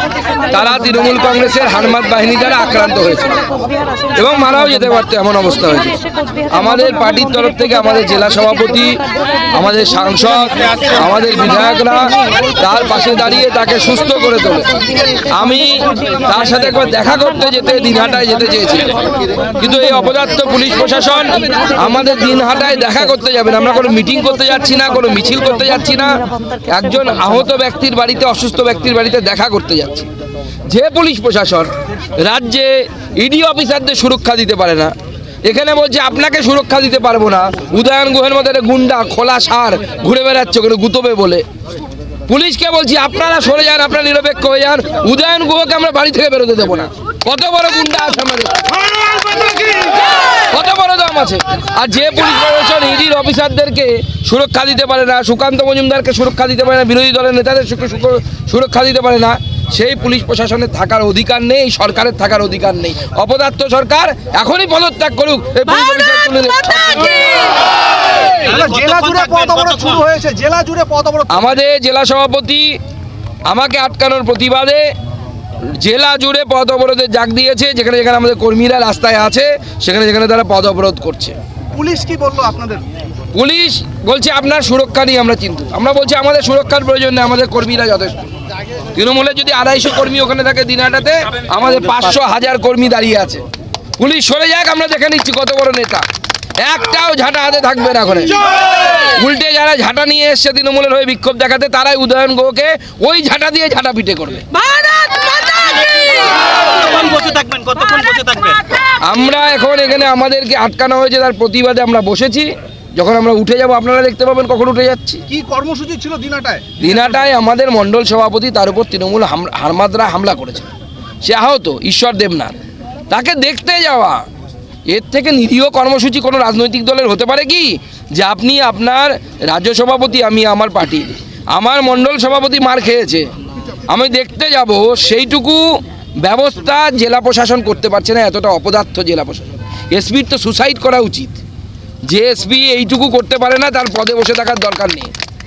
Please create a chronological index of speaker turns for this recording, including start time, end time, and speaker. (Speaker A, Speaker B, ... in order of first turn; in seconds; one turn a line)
Speaker A: 0.5-3.4
Speaker A: 4.1-6.0
Speaker A: 6.5-9.0
Speaker A: 9.6-19.0
Speaker A: 19.6-30.1
Speaker A: 30.7-34.9
Speaker A: 35.4-41.4
Speaker A: 42.3-48.8
Speaker A: 49.4-49.9
Speaker A: 50.4-67.6
Speaker B: 68.4-71.5
Speaker C: 68.6-69.7
Speaker A: 71.3-72.8
Speaker A: 73.5-74.8
Speaker A: 75.8-81.3
Speaker B: 81.7-82.8
Speaker A: 83.3-88.1
Speaker A: 89.0-93.4
Speaker A: 94.0-96.0
Speaker A: 96.6-104.5
Speaker C: 104.6-108.6
Speaker A: 109.1-115.2
Speaker B: 115.3-117.0
Speaker A: 116.8-120.7
Speaker A: 121.2-122.6
Speaker A: 123.1-124.2
Speaker A: 124.9-133.3
Speaker A: 133.9-135.6
Speaker A: 136.2-141.4
Speaker A: 142.1-145.1